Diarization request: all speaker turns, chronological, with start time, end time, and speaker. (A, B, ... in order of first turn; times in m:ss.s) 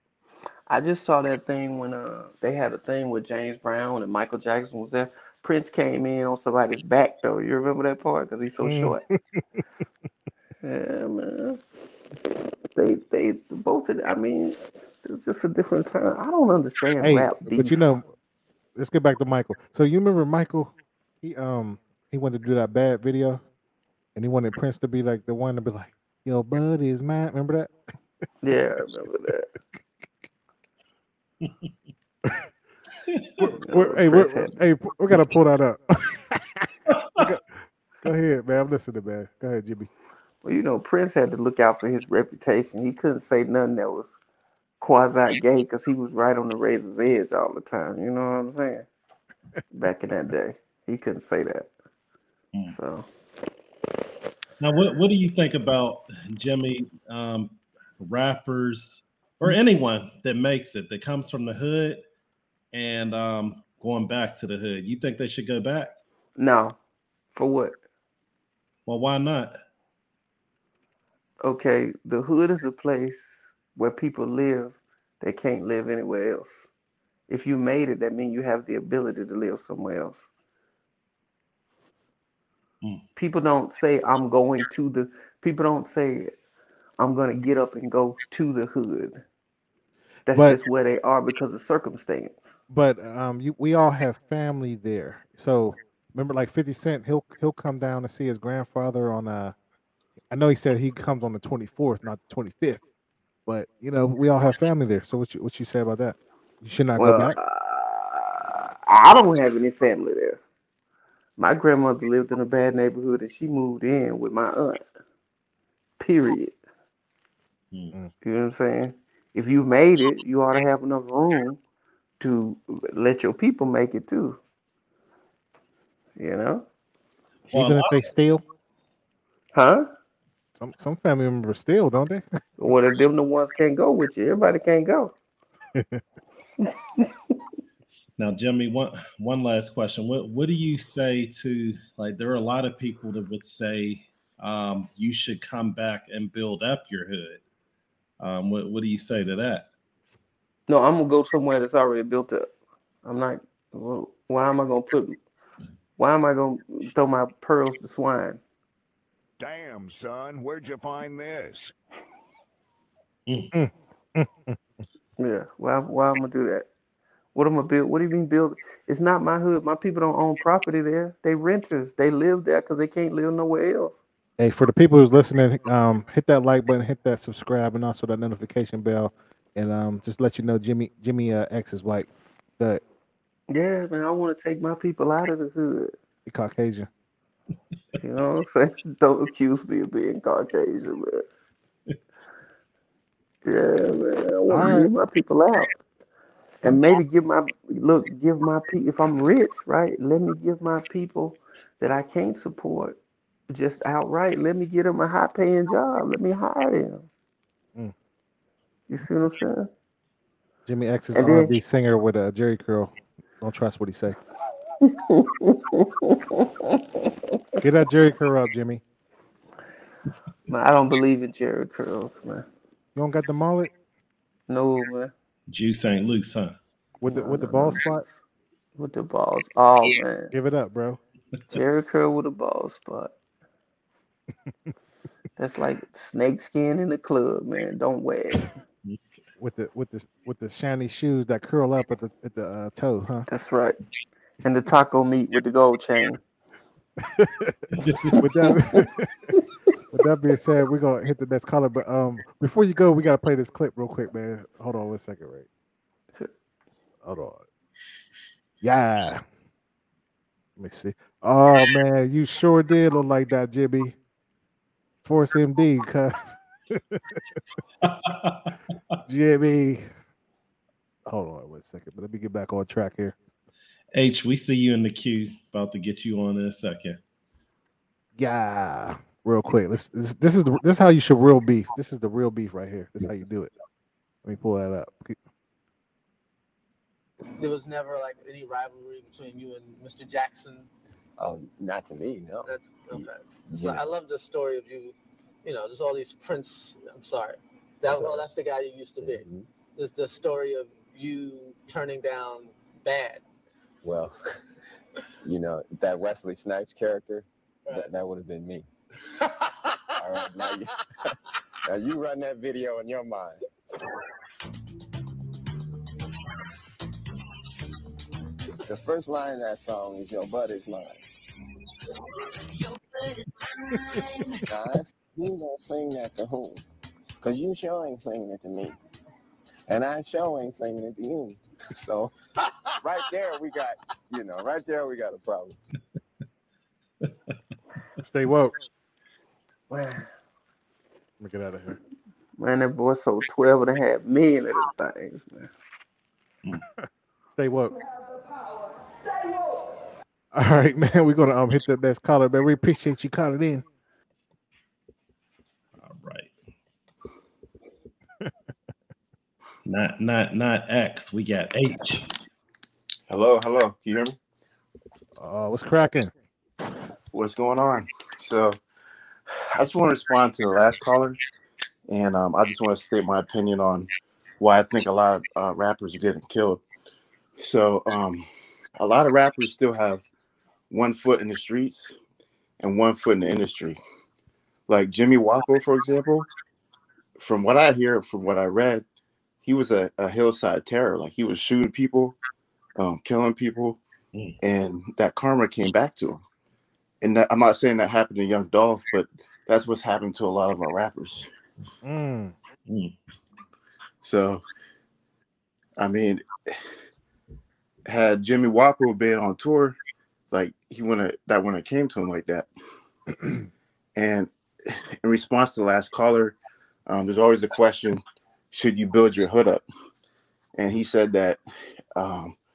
0:00.7-0:09.0 A
0:08.6-0:09.2 B
0:10.6-0:11.6 A
0:12.8-0:17.8 A
0:17.0-0:18.1 B
0:18.8-0:23.4 B
0:24.1-0:27.7 B
0:28.4-0:29.5 A
0:33.1-0:33.4 C
0:33.4-0:36.7 B
0:33.5-0:34.5 A
0:36.9-0:37.1 C
0:37.2-0:39.9 B
0:40.4-0:44.1 A
0:44.8-0:48.8 A
0:49.7-0:51.7 A
0:52.7-0:53.1 A
0:54.6-1:02.0 C
1:02.7-1:05.9 C
1:06.4-1:06.8 A
1:07.3-1:07.8 A
1:08.8-1:09.6 C
1:11.4-1:16.5 A
1:17.3-1:20.2 A
1:23.2-1:26.3 A
1:27.0-1:29.2 A
1:30.3-1:32.4 A
1:30.3-1:30.6 B
1:32.7-1:39.5 B
1:40.3-1:42.8 B
1:43.4-1:47.4 B
1:47.0-1:50.4 A
1:51.4-1:54.8 A
1:56.0-1:56.5 A
1:58.2-2:01.6 A
2:02.2-2:04.4 A
2:06.2-2:06.6 A
2:07.5-2:07.9 C
2:07.5-2:08.4 B
2:09.5-2:09.9 A
2:10.6-2:12.4 B
2:12.6-2:15.1 A
2:15.7-2:16.0 B
2:16.6-2:17.1 A
2:18.2-2:27.4 C
2:28.2-2:29.7 C
2:30.7-2:32.5 A
2:33.0-2:35.2 A
2:36.0-2:38.4 A
2:39.4-2:41.7 D
2:43.5-2:44.6 B
2:45.2-2:46.7 A
2:47.3-2:54.0 A
2:54.4-3:02.8 B
3:03.5-3:05.9 A
3:06.2-3:06.9 B
3:08.0-3:11.2 A
3:13.4-3:15.7 A
3:14.5-3:14.9 B
3:16.6-3:23.0 A
3:23.5-3:27.1 A
3:28.9-3:29.7 A
3:30.7-3:34.2 B
3:31.1-3:31.5 A
3:34.8-3:37.1 A
3:37.6-3:38.8 B
3:40.5-3:42.4 A
3:43.0-3:43.7 B
3:44.5-3:45.1 A
3:45.5-3:46.6 C
3:47.0-3:48.0 B
3:47.0-3:48.2 A
3:48.8-3:50.3 A
3:50.3-3:51.0 B
3:51.5-3:53.1 A
3:55.4-3:58.5 A
3:59.4-4:03.3 B
4:03.3-4:03.8 A
4:04.4-4:06.2 A
4:07.2-4:07.6 B
4:07.7-4:08.2 C
4:08.2-4:09.1 B
4:09.9-4:15.5 B
4:17.0-4:17.4 B
4:18.6-4:19.2 B
4:20.6-4:24.0 B
4:25.0-4:27.2 B
4:27.8-4:28.5 C
4:29.1-4:29.9 B
4:31.1-4:33.2 B
4:33.9-4:37.0 C
4:38.2-4:43.5 B
4:44.2-4:45.2 B
4:47.4-4:50.7 E
4:51.2-4:53.9 F
4:52.4-4:59.2 E
4:57.8-4:58.3 F
4:59.0-4:59.5 F
4:59.8-5:03.2 E
5:03.8-5:04.2 F
5:05.2-5:08.7 F
5:10.0-5:10.7 F
5:11.7-5:13.4 F
5:18.6-5:21.0 F
5:24.4-5:26.6 F
5:27.2-5:28.8 F
5:29.7-5:32.1 F
5:32.8-5:35.6 F
5:38.0-5:38.5 B
5:39.7-5:40.0 B
5:41.2-5:41.8 B
5:42.4-5:45.5 A
5:47.4-5:47.7 B
5:50.3-5:53.6 B
5:55.8-5:56.3 C
5:59.6-6:02.1 C
6:03.1-6:04.2 G
6:05.2-6:06.1 B
6:07.1-6:08.6 G
6:09.5-6:11.2 G
6:11.9-6:16.6 G
6:17.4-6:18.3 G
6:18.8-6:20.0 G
6:20.7-6:21.9 G
6:22.6-6:23.8 G
6:24.7-6:26.3 G
6:27.2-6:28.8 G
6:29.4-6:32.2 G
6:32.8-6:33.8 G
6:34.4-6:36.2 G
6:37.0-6:41.3 G
6:41.8-6:42.3 B
6:42.7-6:42.9 C
6:44.0-6:44.4 G
6:45.8-6:46.5 G
6:47.8-6:49.8 G
6:50.3-6:52.5 G
6:54.0-6:59.6 G
7:00.6-7:01.4 G
7:01.9-7:02.4 G